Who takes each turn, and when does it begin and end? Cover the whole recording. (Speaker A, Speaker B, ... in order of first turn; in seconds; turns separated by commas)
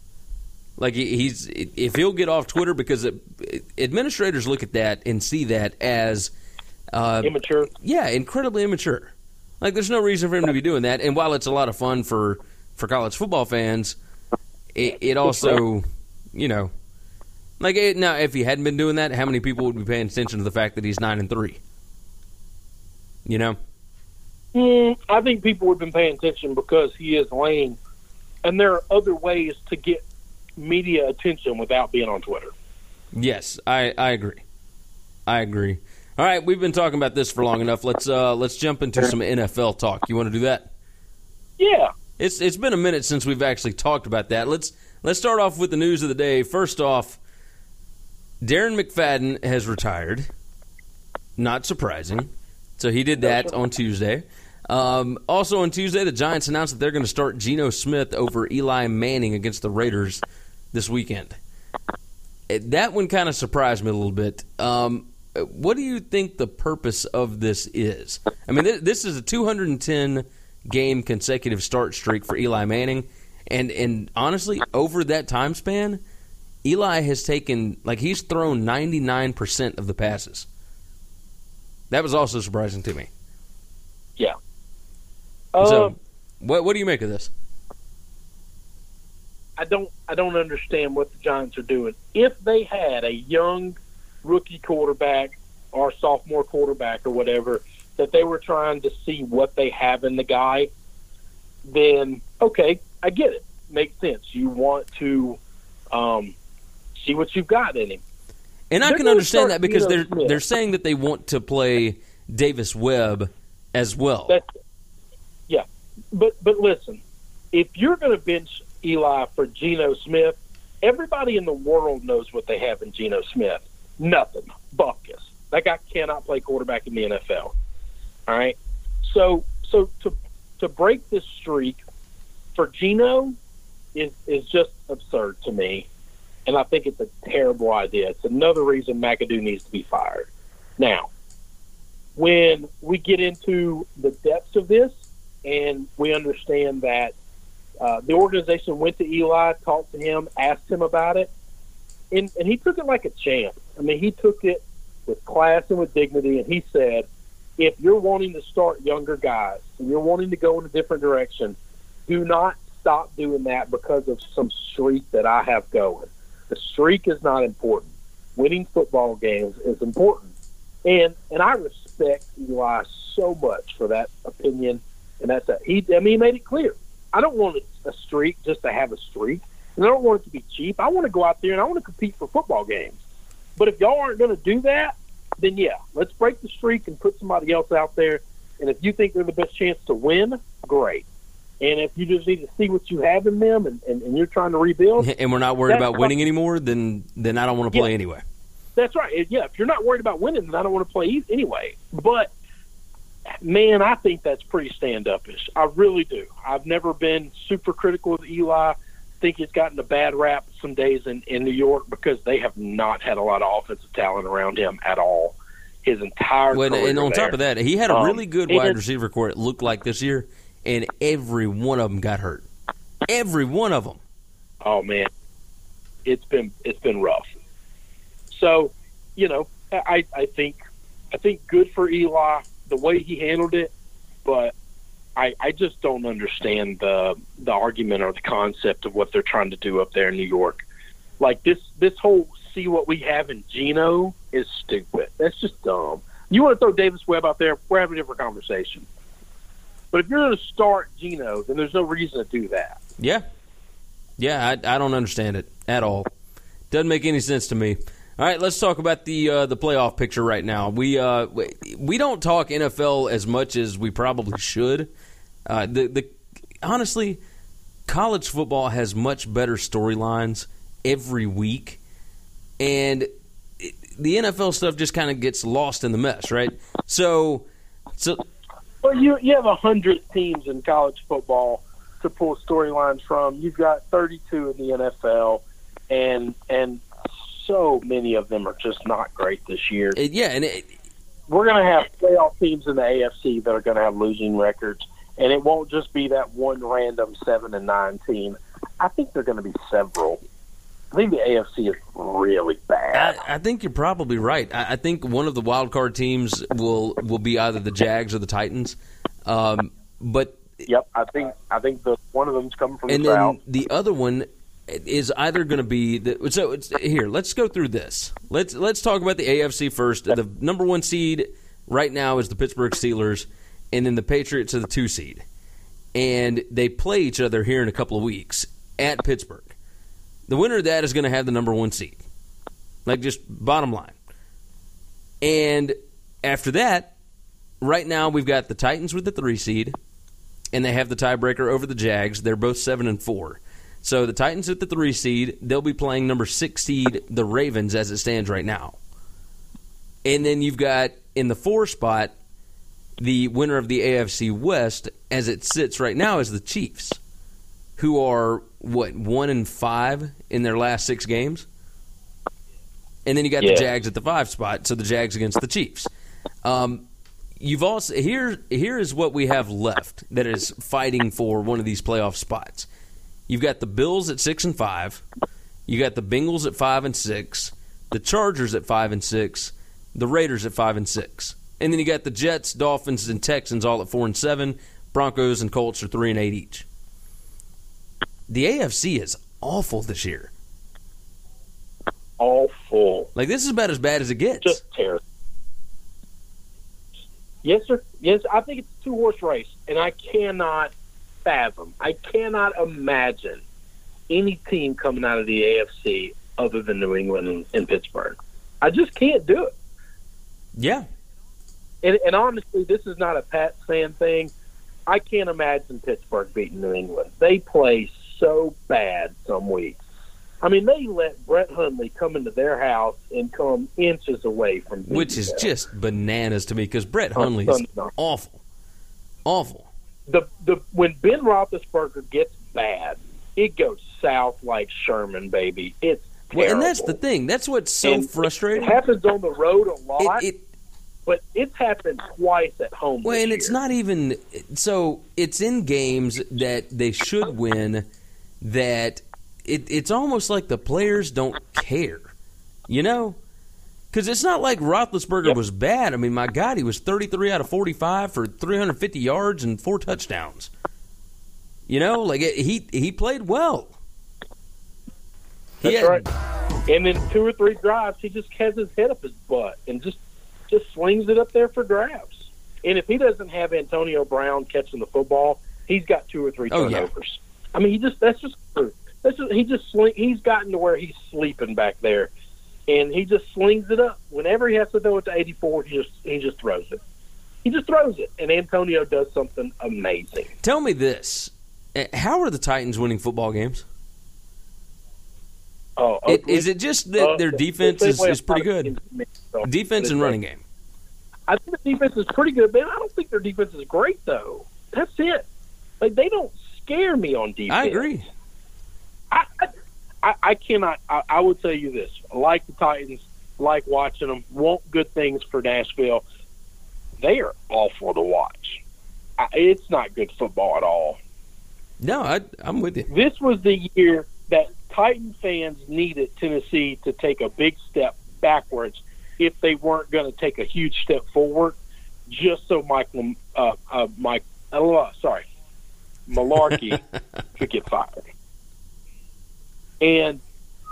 Speaker A: 0.8-6.3, Speaker A: 6.9-14.0, Speaker B: 7.2-7.7, Speaker A: 14.7-16.7, Speaker B: 15.2-15.6, Speaker A: 17.6-21.6, Speaker A: 23.3-23.6, Speaker B: 24.5-27.8, Speaker B: 28.4-30.0, Speaker B: 30.6-32.5, Speaker A: 33.1-34.4, Speaker A: 35.3-40.7, Speaker B: 41.6-41.9, Speaker A: 42.2-47.2, Speaker A: 48.4-50.3, Speaker A: 51.4-61.4, Speaker B: 53.2-53.5, Speaker A: 62.5-76.0, Speaker A: 76.6-80.5, Speaker A: 81.9-83.1, Speaker B: 85.5-85.9, Speaker A: 85.6-87.3, Speaker B: 89.6-100.7, Speaker B: 101.7-105.4, Speaker B: 105.9-106.3, Speaker B: 107.0-108.0, Speaker A: 108.7-114.4, Speaker B: 108.8-110.4, Speaker B: 115.5-117.0, Speaker B: 117.5-127.5, Speaker B: 128.3-131.8, Speaker B: 132.6-133.3, Speaker B: 133.9-135.9, Speaker B: 136.5-141.1, Speaker B: 142.2-144.9, Speaker B: 145.4-147.2, Speaker B: 147.8-151.3, Speaker B: 152.1-157.1, Speaker B: 157.6-161.6, Speaker B: 162.1-170.3, Speaker B: 170.8-183.0, Speaker B: 183.6-191.1, Speaker B: 191.6-195.1, Speaker A: 195.0-198.2, Speaker B: 195.7-196.1, Speaker B: 198.8-202.3, Speaker B: 203.4-217.4, Speaker A: 216.5-222.5, Speaker B: 217.9-218.8, Speaker A: 223.1-224.0, Speaker B: 224.6-225.1, Speaker B: 226.1-227.2, Speaker B: 228.3-230.6, Speaker B: 231.1-233.7, Speaker B: 234.2-234.5, Speaker B: 235.2-240.6, Speaker B: 241.2-248.9, Speaker B: 249.9-252.8, Speaker A: 253.0-253.2, Speaker A: 254.2-256.1, Speaker A: 256.7-264.9, Speaker A: 265.5-267.2, Speaker A: 267.9-271.8, Speaker A: 272.6-273.1, Speaker A: 273.6-277.5, Speaker B: 278.8-290.0, Speaker A: 290.0-290.7, Speaker B: 291.3-300.2, Speaker B: 300.9-303.2, Speaker A: 302.9-310.4, Speaker B: 310.7-313.4, Speaker A: 312.9-325.2, Speaker A: 325.9-329.5, Speaker A: 330.3-332.0, Speaker A: 332.9-334.0, Speaker A: 335.2-336.9, Speaker A: 337.6-339.8, Speaker A: 340.5-348.8, Speaker A: 350.1-352.1, Speaker A: 353.0-357.0, Speaker A: 357.8-361.5, Speaker A: 363.1-365.9, Speaker B: 363.4-363.7, Speaker A: 366.4-366.9, Speaker A: 367.4-372.7, Speaker A: 373.3-375.0, Speaker A: 375.7-386.7, Speaker A: 388.3-390.3, Speaker B: 392.2-393.1, Speaker A: 393.2-394.6, Speaker B: 394.4-395.0, Speaker B: 397.4-400.7, Speaker B: 401.2-403.4, Speaker B: 404.1-409.5, Speaker A: 410.6-410.9, Speaker B: 411.8-414.3, Speaker B: 414.9-419.8, Speaker B: 420.4-425.5, Speaker A: 424.9-428.4, Speaker B: 427.2-427.9, Speaker A: 429.3-429.7, Speaker B: 430.1-437.0, Speaker A: 436.3-438.8, Speaker B: 437.8-440.2, Speaker A: 440.0-440.4, Speaker B: 441.1-443.6, Speaker A: 443.0-447.9, Speaker A: 448.4-452.1, Speaker A: 452.7-453.2, Speaker A: 453.9-460.5, Speaker A: 461.7-463.7, Speaker A: 465.6-466.1, Speaker B: 465.6-466.1, Speaker B: 466.7-482.1, Speaker A: 476.5-476.9, Speaker B: 482.7-486.8, Speaker B: 487.4-490.3, Speaker A: 490.4-493.6, Speaker B: 495.8-496.5, Speaker A: 496.1-498.7, Speaker B: 497.0-500.2, Speaker A: 499.4-500.4, Speaker B: 501.3-505.2, Speaker B: 505.8-507.9, Speaker A: 507.5-508.1, Speaker B: 509.1-509.5, Speaker B: 510.0-516.0, Speaker B: 517.0-518.6, Speaker B: 519.2-521.0, Speaker A: 521.8-522.9, Speaker B: 522.9-535.2, Speaker B: 536.1-536.8, Speaker B: 537.4-538.1, Speaker B: 539.8-540.2